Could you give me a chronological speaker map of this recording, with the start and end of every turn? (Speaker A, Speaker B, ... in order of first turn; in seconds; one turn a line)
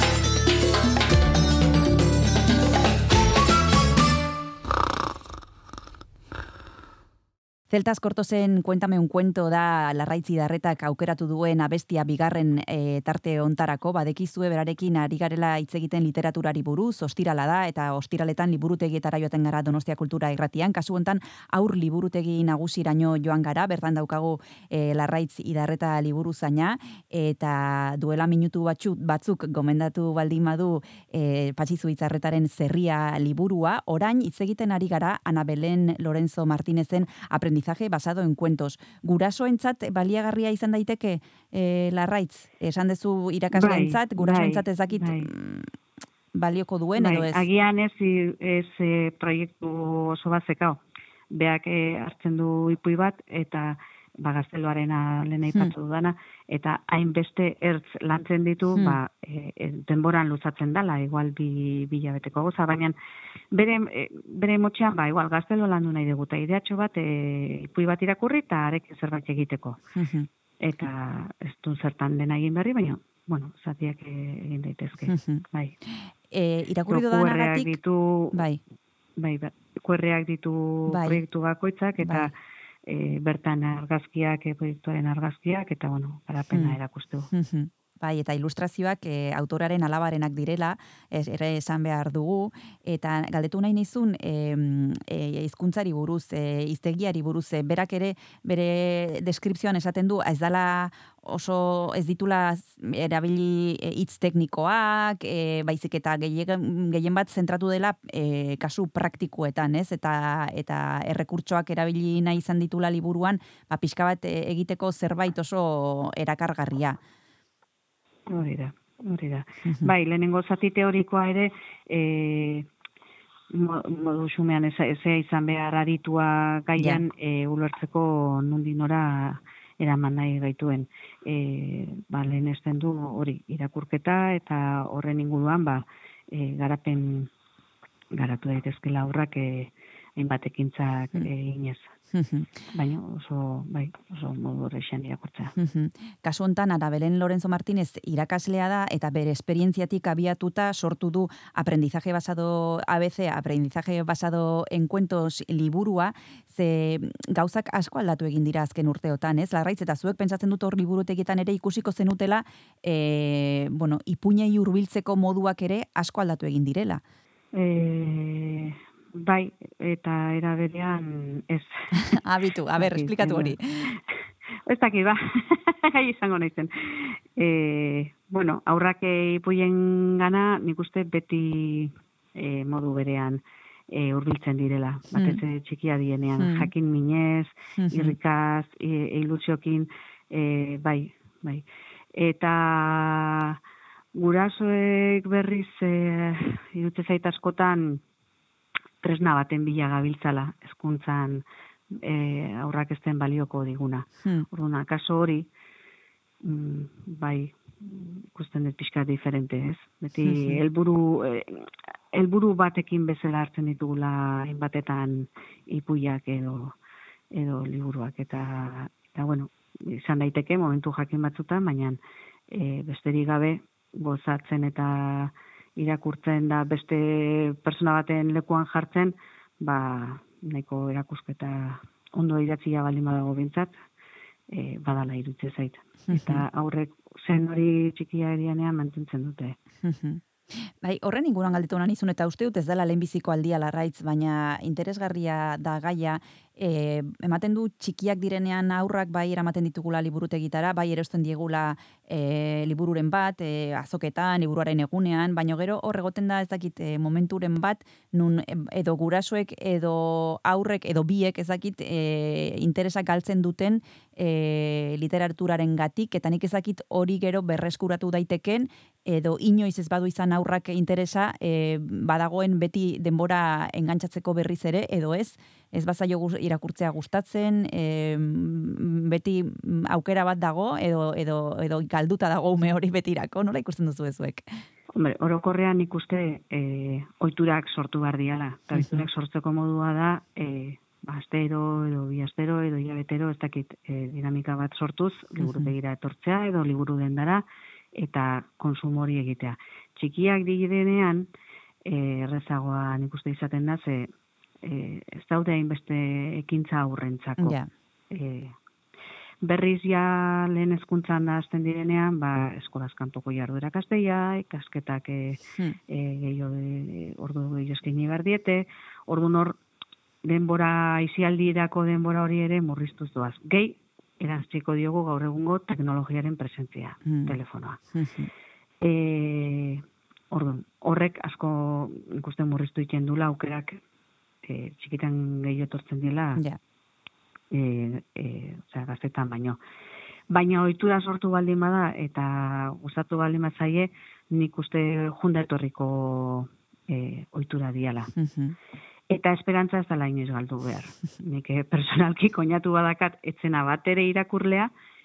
Speaker A: 7.7-45.7
Speaker B: 43.5-45.3
Speaker A: 46.3-47.4
Speaker B: 47.0-50.8
Speaker B: 51.3-62.9
Speaker B: 63.5-69.8
Speaker A: 70.0-70.3
Speaker B: 70.6-75.7
Speaker A: 75.0-75.4
Speaker A: 76.3-77.8
Speaker B: 76.9-78.4
Speaker A: 78.3-78.6
Speaker B: 79.2-82.3
Speaker A: 80.9-81.2
Speaker A: 82.0-82.3
Speaker B: 82.9-87.3
Speaker A: 86.5-86.8
Speaker A: 87.3-117.0
Speaker B: 118.3-122.7
Speaker A: 119.7-119.9
Speaker B: 123.5-137.3
Speaker B: 138.1-141.9
Speaker A: 142.1-142.5
Speaker B: 142.7-145.5
Speaker A: 145.5-167.0
Speaker B: 167.6-172.2
Speaker A: 172.2-173.7
Speaker B: 172.7-173.6
Speaker B: 174.7-176.7
Speaker B: 177.4-191.6
Speaker A: 185.1-185.4
Speaker A: 186.4-186.7
Speaker A: 187.8-188.2
Speaker B: 192.2-193.6
Speaker B: 194.1-198.0
Speaker B: 199.0-201.4
Speaker B: 202.0-205.5
Speaker B: 206.4-211.6
Speaker A: 210.2-210.6
Speaker B: 212.1-216.7
Speaker B: 217.3-222.0
Speaker B: 222.5-233.8
Speaker B: 234.5-239.6
Speaker A: 236.1-236.4
Speaker A: 239.8-284.4
Speaker B: 284.9-297.4
Speaker A: 288.7-289.1
Speaker A: 295.4-295.7
Speaker B: 298.0-301.3
Speaker B: 301.9-304.1
Speaker B: 304.6-307.6
Speaker A: 307.4-307.7
Speaker B: 308.1-308.5
Speaker B: 309.4-319.6
Speaker B: 320.2-327.8
Speaker A: 327.0-327.4
Speaker A: 327.9-328.3
Speaker B: 328.8-333.8
Speaker B: 334.4-336.4
Speaker B: 337.5-339.6
Speaker B: 340.3-348.1
Speaker A: 348.1-348.6
Speaker B: 349.1-354.7